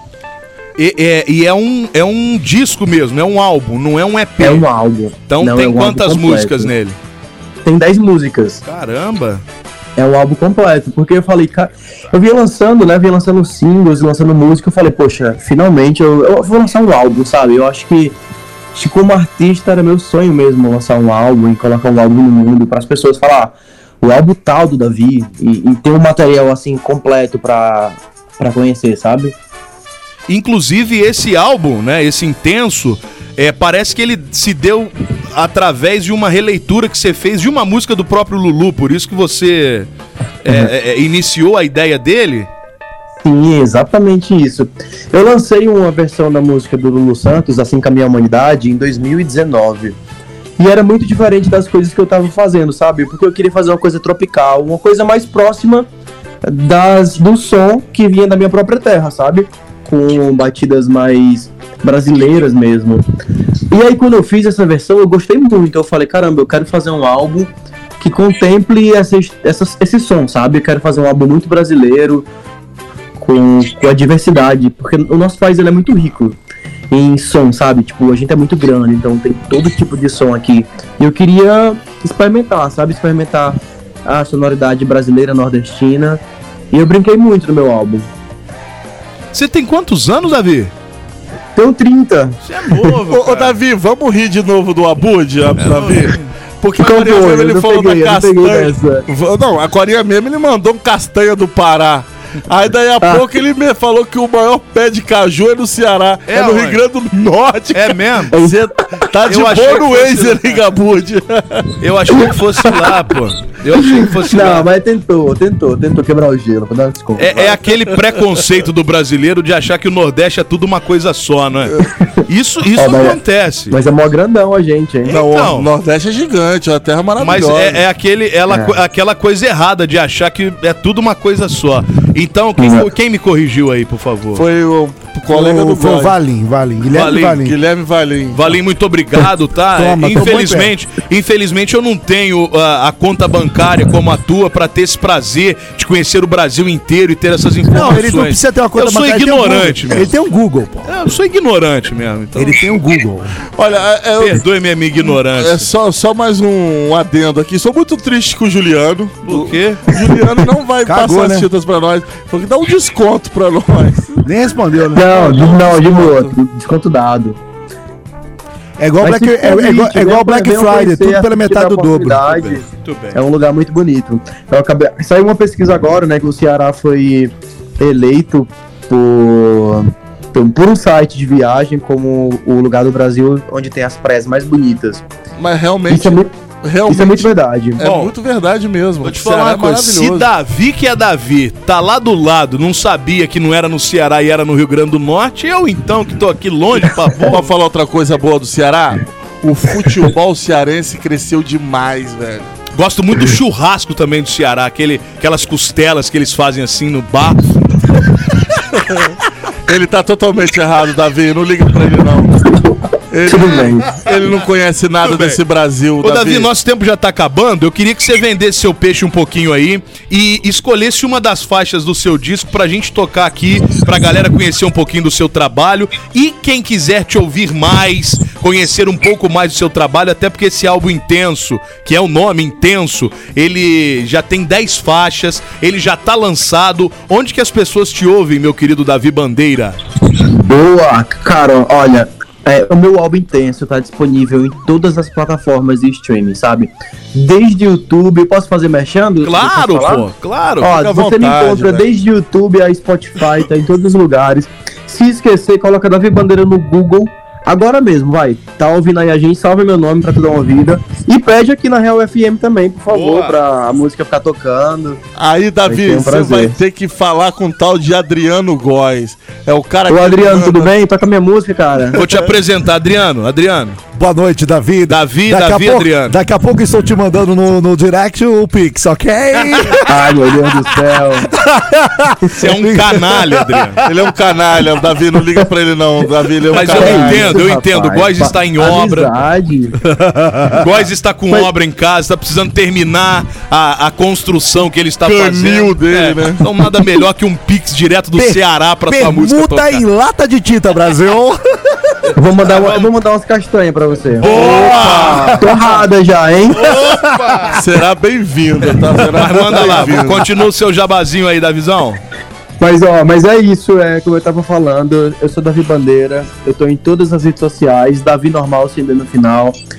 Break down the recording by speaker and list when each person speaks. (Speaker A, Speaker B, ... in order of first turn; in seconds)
Speaker A: 0.8-4.7, 5.3-7.0, 8.7-9.4, 30.3-39.9, 40.4-42.5, 89.3-90.7, 92.4-93.6, 95.6-96.3, 106.3-106.8, 107.7-108.4, 109.2-110.6, 111.8-114.7, 117.2-123.8, 125.1-125.7, 127.2-134.5, 136.9-137.4, 138.3-150.1, 150.8-152.6, 154.2-155.7, 159.3-159.9, 172.3-173.2, 187.8-188.1, 189.0-197.5, 202.8-207.4, 215.0-215.4, 216.0-239.8, 249.2-250.7, 262.9-263.4, 271.9-273.8, 274.9-276.2, 282.4-283.8, 286.5-289.2, 290.5-299.8, 302.1-302.9, 304.2-305.4, 306.5-307.6, 309.1-312.0
Speaker B: 4.4-6.7, 7.7-8.6, 10.0-18.2, 18.8-29.4, 43.2-50.0, 50.6-55.9, 56.4-63.0, 63.7-72.3, 73.2-76.4, 76.9-88.1, 91.6-92.4, 96.8-99.0, 108.3-108.6, 113.8-117.6, 122.8-123.2, 123.7-125.2, 128.5-128.8, 132.6-132.9, 164.9-167.4, 169.0-185.0, 185.9-186.3, 186.9-187.8, 213.2-214.0, 240.3-250.1, 250.6-265.0, 265.7-266.6, 269.9-272.1, 279.9-281.3, 286.7-289.8, 302.2-306.6, 312.6-319.6
Speaker C: 93.1-111.7, 125.1-127.8, 134.3-136.2, 137.4-138.5, 153.6-154.4, 155.3-164.2, 165.1-166.3, 185.4-190.3, 197.3-202.5, 209.7-212.4, 213.1-216.5, 250.7-251.9, 265.2-270.7, 283.9-287.4, 295.1-296.4, 304.3-305.3, 307.6-310.3
Speaker D: 135.3-137.6, 139.8-140.7, 147.7-150.9, 152.4-153.4, 160.8-161.5, 164.2-165.5, 168.8-172.4, 273.9-279.9, 281.4-283.8, 290.2-290.5, 298.1-301.4, 304.2-305.4, 306.7-307.6